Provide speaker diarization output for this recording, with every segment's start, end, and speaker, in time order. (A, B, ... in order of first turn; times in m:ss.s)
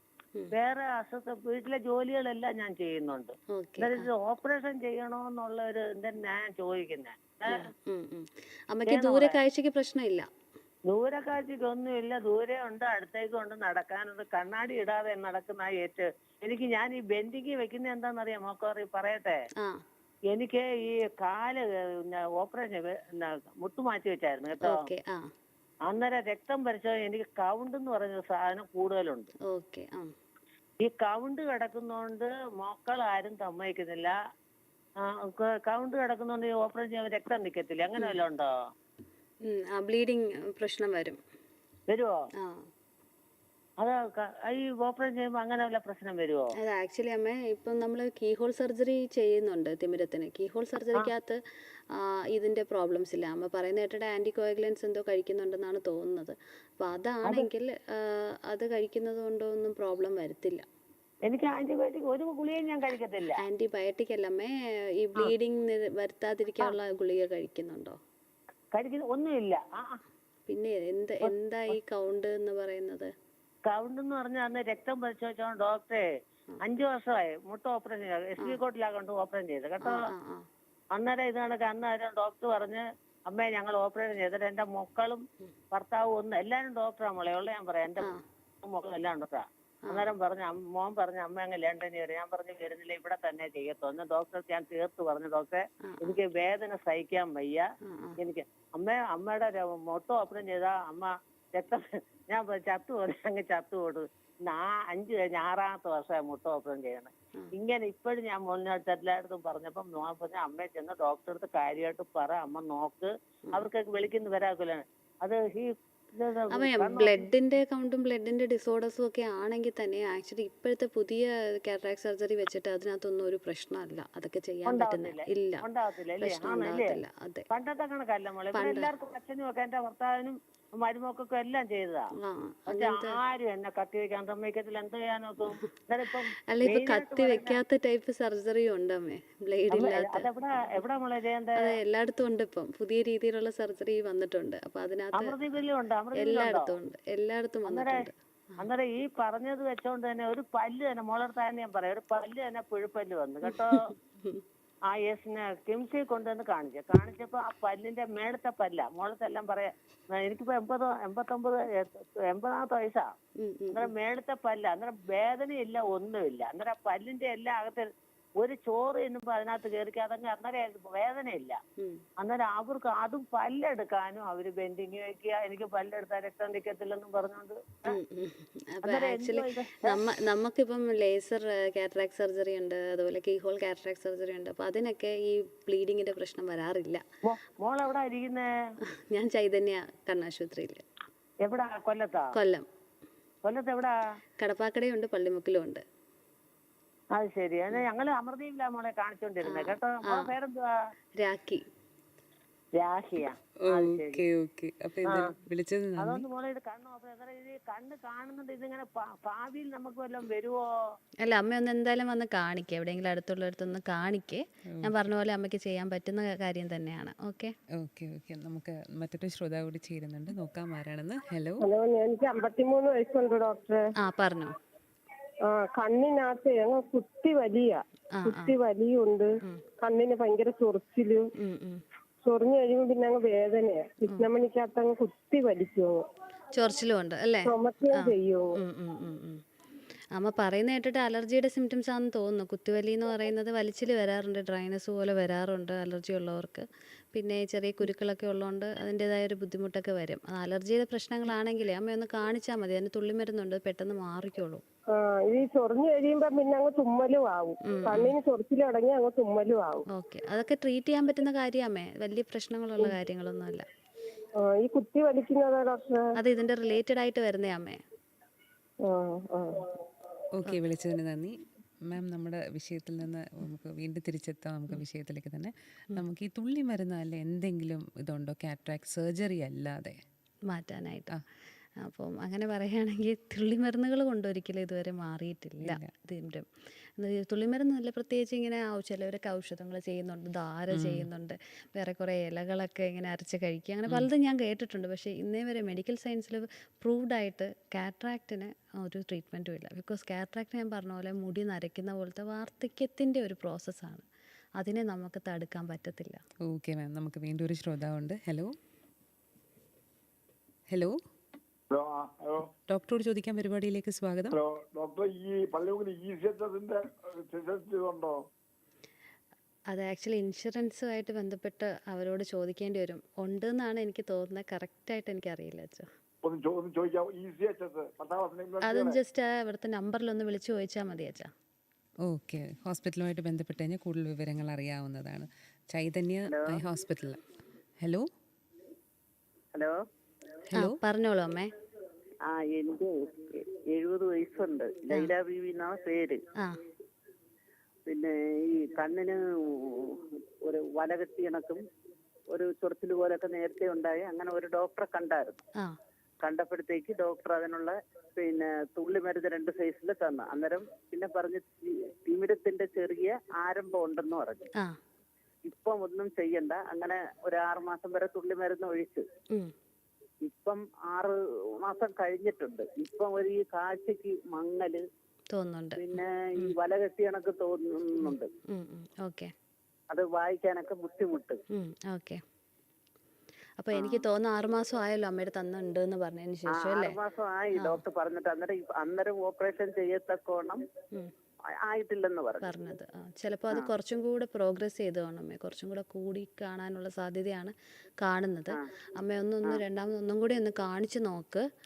0:00.5-0:07.7 A
0:03.5-0:04.1 B
0:07.5-0:10.3 B
0:08.9-0:09.4 A
0:10.9-0:19.4 A
0:19.6-0:19.8 B
0:20.3-0:24.8 A
0:24.6-0:25.3 B
0:25.9-0:29.3 A
0:29.5-0:30.1 B
0:30.8-0:34.2 A
0:35.0-0:38.5 A
0:39.4-0:41.2 B
0:41.9-0:42.2 A
0:42.4-0:42.7 B
0:43.8-0:46.4 A
0:46.6-1:00.6 B
0:57.2-0:57.5 A
1:01.2-1:03.4 A
1:03.4-1:08.0 B
1:08.7-1:10.0 A
1:10.5-1:13.1 B
1:13.7-1:16.0 A
1:16.6-1:20.0 A
1:19.8-1:20.5 B
1:20.9-1:37.6 A
1:35.8-1:36.2 B
1:37.8-1:38.2 B
1:38.2-1:57.3 A
1:56.5-2:05.6 B
2:04.7-2:06.9 A
2:06.2-2:07.5 B
2:07.5-2:12.1 A
2:08.5-2:08.9 B
2:12.2-2:13.2 B
2:12.7-2:17.6 A
2:16.5-2:20.3 B
2:19.7-2:21.8 A
2:21.6-2:25.4 B
2:25.2-2:26.7 A
2:26.2-2:28.1 B
2:27.7-2:28.0 A
2:28.6-2:33.9 A
2:33.5-2:34.4 B
2:34.9-2:43.1 A
2:43.4-2:43.9 B
2:43.7-2:47.9 A
2:48.4-2:51.6 A
2:52.2-2:57.9 A
2:57.9-3:07.0 B
2:58.8-3:00.0 A
3:07.2-3:08.5 A
3:08.9-3:10.8 B
3:11.4-3:12.3 A
3:12.3-3:12.7 B
3:13.4-3:13.9 A
3:14.4-3:15.8 B
3:17.1-3:20.7 A
3:19.4-3:20.3 B
3:21.2-3:21.6 B
3:22.8-3:24.2 A
3:23.6-3:26.2 C
3:26.0-3:30.6 A
3:31.2-3:37.6 B
3:37.7-3:41.6 C
3:41.6-3:43.8 D
3:44.0-3:44.6 B
3:45.5-3:49.3 D
3:48.2-3:48.5 B
3:49.8-3:51.3 D
3:51.4-3:51.8 B
3:52.2-3:56.0 D
3:56.5-3:59.4 B
3:57.4-3:58.5 D
4:00.1-4:14.6 B
4:14.9-4:19.8 D
4:17.6-4:18.1 B
4:19.9-4:23.6 B
4:24.4-4:26.1 D
4:26.2-4:27.8 B
4:28.8-4:29.6 D
4:30.3-4:40.0 C
4:40.5-4:41.2 B
4:41.8-5:04.0 B
4:45.6-4:45.9 C
4:50.7-4:51.1 C
5:04.6-5:06.2 B
5:06.4-5:08.5 C
5:10.7-5:11.0 C
5:11.7-5:12.5 E
5:12.7-5:14.4 C
5:14.3-5:18.2 E
5:19.7-5:25.9 B
5:26.2-5:29.0 E
5:28.6-5:31.3 B
5:32.0-5:37.2 C
5:36.3-5:36.6 F
5:37.8-5:38.0 C
5:40.5-5:40.8 C
5:40.6-5:41.5 B
5:42.2-5:46.2 F
5:47.8-5:51.6 F
5:52.3-5:55.4 F
5:56.2-6:04.5 F
6:05.4-6:09.0 F
6:10.2-6:14.8 F
6:15.3-6:16.5 B
6:15.8-6:18.3 F
6:18.0-6:19.3 B
6:19.9-6:21.4 F
6:21.5-6:22.2 B
6:23.6-6:27.0 B
6:23.7-6:24.0 F
6:26.5-6:30.6 F
6:27.6-6:27.8 B
6:31.6-6:32.5 F
6:32.4-6:41.5 B